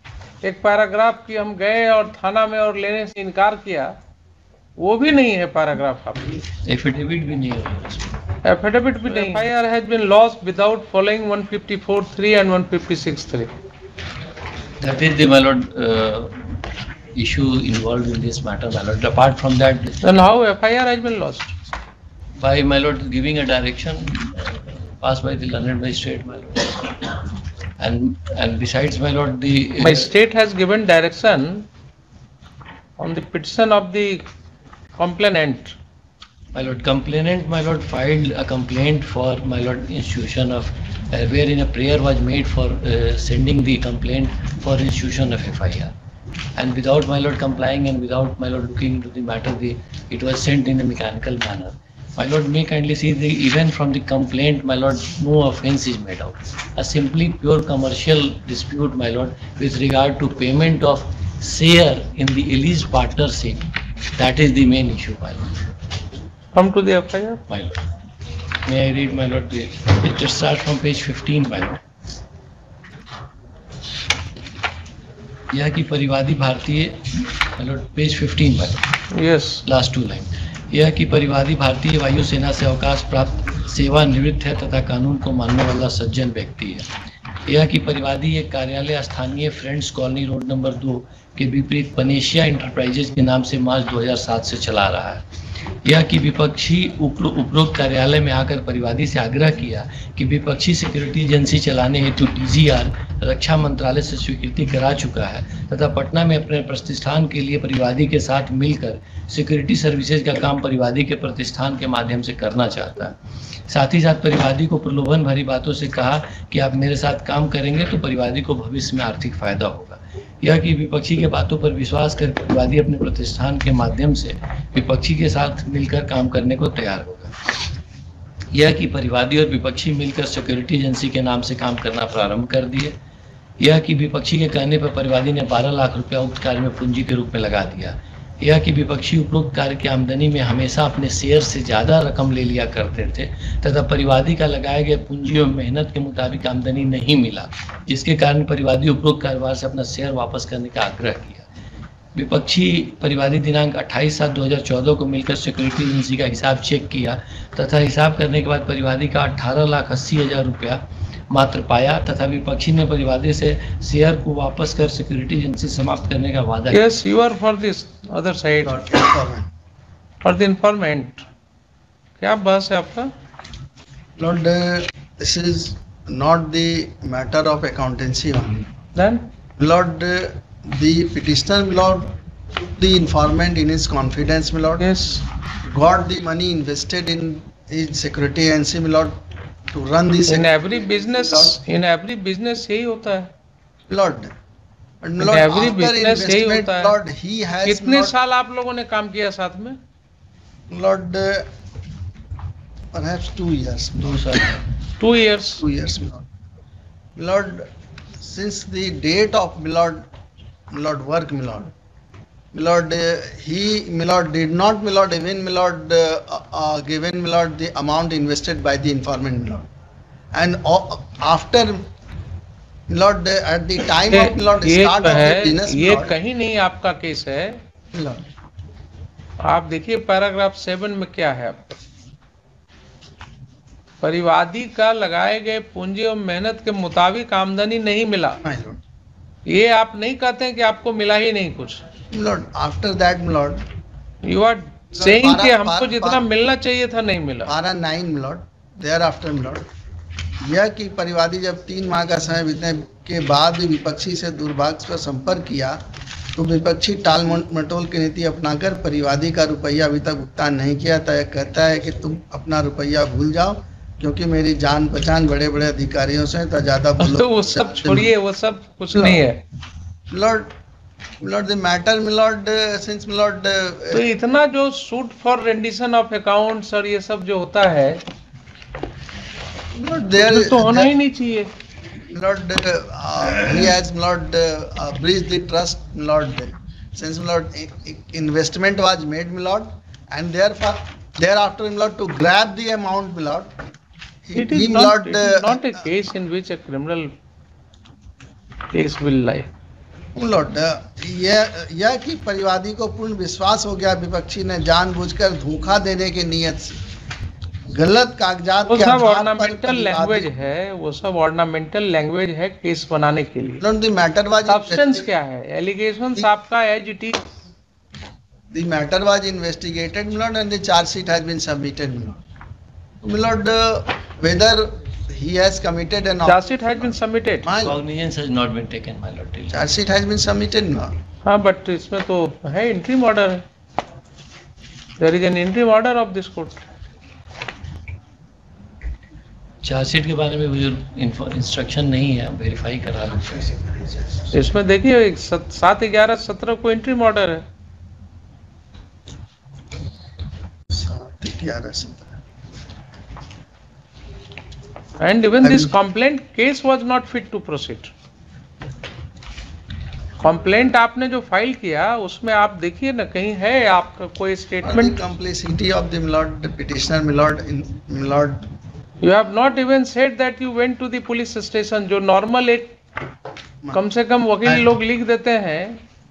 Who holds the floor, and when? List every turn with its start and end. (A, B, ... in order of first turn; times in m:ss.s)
0:00.4-0:03.9 A
0:04.8-0:06.4 A
0:06.7-0:08.2 B
0:08.4-0:13.5 A
0:14.8-0:16.6 B
0:17.2-0:20.0 B
0:20.0-0:21.6 A
0:22.4-0:27.3 B
0:27.8-0:30.1 B
0:29.8-0:31.7 A
0:33.0-0:34.2 A
0:35.0-0:35.7 A
0:36.5-0:45.9 B
0:46.6-1:05.6 B
1:06.5-1:07.4 A
1:07.5-1:07.8 B
1:08.6-1:11.8 B
1:15.5-1:18.9 B
1:19.1-1:19.6 A
1:19.7-1:26.9 B
1:27.5-1:35.2 B
1:35.8-1:53.1 B
1:53.7-2:07.3 B
2:08.5-2:13.0 B
2:13.6-2:31.5 B
2:32.2-2:46.9 B
2:46.7-2:48.8 A
2:48.6-2:49.5 C
2:50.2-2:51.2 A
2:52.2-2:53.1 A
2:54.2-2:58.6 C
2:58.9-2:59.2 A
2:59.6-3:02.1 C
3:02.8-3:04.9 C
3:04.8-3:05.2 A
3:05.6-3:09.1 C
3:09.7-3:11.6 C
3:10.2-3:13.3 A
3:13.9-3:14.3 C
3:15.0-3:18.1 C
3:15.2-3:17.0 A
3:17.6-3:19.8 A
3:20.7-3:21.4 C
3:22.9-3:24.6 C
3:24.0-3:24.6 B
3:25.0-3:25.6 A
3:25.6-3:26.2 C
3:27.2-3:27.7 C
3:28.2-3:30.0 C
3:30.7-3:31.7 C
3:32.5-3:39.7 C
3:40.3-3:41.8 C
3:42.9-3:46.1 C
3:44.1-3:47.6 A
3:47.9-3:48.2 C
3:49.4-3:51.8 A
3:54.0-3:58.4 A
3:58.4-3:58.8 C
3:59.4-4:01.8 A
4:02.1-4:03.6 C
4:04.2-4:07.5 A
4:05.0-4:06.2 C
4:07.5-4:09.6 C
4:10.4-4:15.8 C
4:16.3-4:28.1 C
4:27.0-4:29.4 A
4:28.9-4:29.2 C
4:30.1-4:30.5 C
4:31.2-4:34.1 C
4:33.9-4:38.0 A
4:39.8-4:40.9 C
4:40.0-4:41.5 A
4:42.1-4:53.5 C
4:54.2-4:55.6 C
4:54.3-4:57.1 A
4:58.7-4:59.5 A
5:00.2-5:06.8 C
5:07.7-5:10.3 C
5:08.6-5:13.6 A
5:13.6-5:15.0 C
5:14.5-5:17.2 A
5:18.5-5:22.2 C
5:23.0-5:27.8 C
5:26.2-5:27.5 A
5:27.6-5:29.6 B
5:29.5-5:30.9 C
5:31.2-5:33.4 A
5:35.0-5:36.6 A
5:39.6-5:43.7 B
5:44.3-5:47.4 A
5:50.7-5:52.2 C
5:55.0-5:57.9 A
5:55.4-5:55.7 C
6:00.2-6:05.0 A
6:04.6-6:08.4 C
6:09.0-6:12.8 A
6:13.7-6:15.8 A